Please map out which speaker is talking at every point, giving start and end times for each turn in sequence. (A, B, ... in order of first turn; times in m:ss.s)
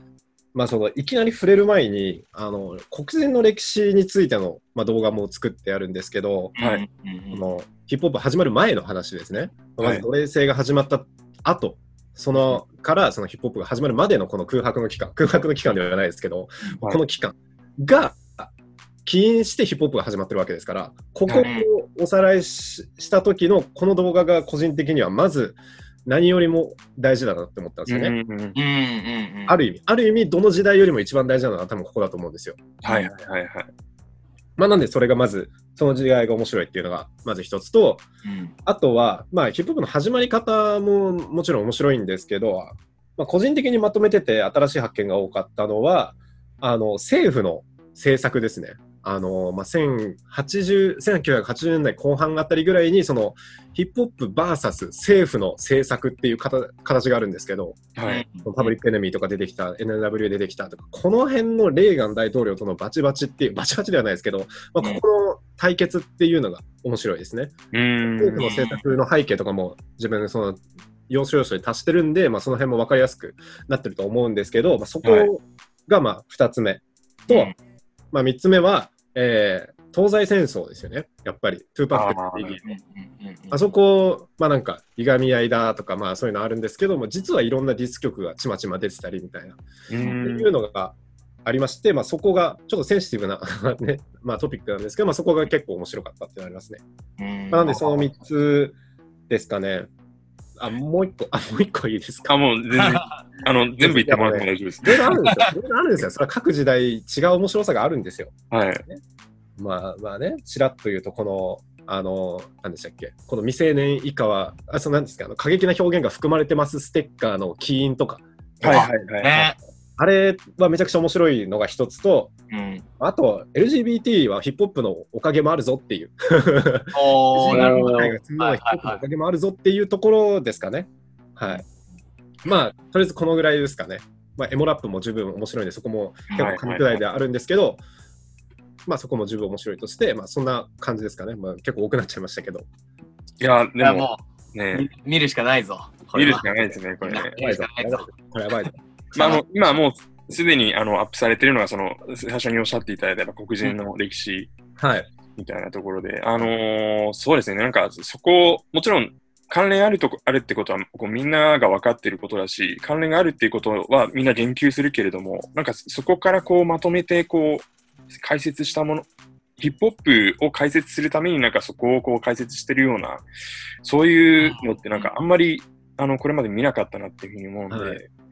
0:00.5-0:06.6 A
0:06.6-0:07.5 B
0:06.6-0:06.8 C
0:07.3-0:18.5 A
0:19.0-0:28.1 A
0:21.4-0:21.7 B
0:27.9-0:28.6 C
0:28.6-0:29.6 B
0:29.5-0:32.8 A
0:32.8-0:33.7 C
0:34.6-0:38.1 A
0:38.2-0:38.6 B
0:38.6-1:07.5 A
0:58.0-0:58.2 C
0:58.1-0:58.8 B
1:07.7-1:08.5 C
1:08.1-1:17.5 A
1:08.4-1:08.8 B
1:15.0-1:15.3 C
1:18.1-1:22.7 A
1:21.9-1:22.6 C
1:22.6-1:23.6 B
1:23.5-1:29.6 A
1:29.9-1:30.5 C
1:30.2-1:36.8 A
1:37.2-1:38.0 B
1:37.5-1:38.8 A
1:39.3-1:39.9 A
1:40.6-1:42.4 A
1:42.3-1:45.0 C
1:42.8-1:43.2 B
1:43.8-1:48.4 A
1:45.1-1:45.5 B
1:48.5-1:48.8 C
1:49.6-1:58.9 A
1:58.6-1:59.5 C
1:58.6-1:59.6 B
2:00.0-2:02.3 A
2:02.5-2:02.9 B
2:03.0-2:11.6 A
2:06.9-2:09.0 B
2:07.5-2:08.0 C
2:12.4-2:17.8 A
2:16.4-2:16.9 C
2:18.9-2:22.7 A
2:23.4-2:24.9 C
2:23.8-2:24.2 B
2:24.7-2:26.5 B
2:26.1-2:27.3 C
2:27.0-2:28.1 B
2:27.4-2:29.4 A
2:29.2-2:34.5 C
2:34.8-2:35.1 A
2:35.3-2:49.1 C
2:49.6-2:53.2 C
2:53.8-2:58.0 C
2:54.4-2:55.1 B
2:57.7-2:58.0 A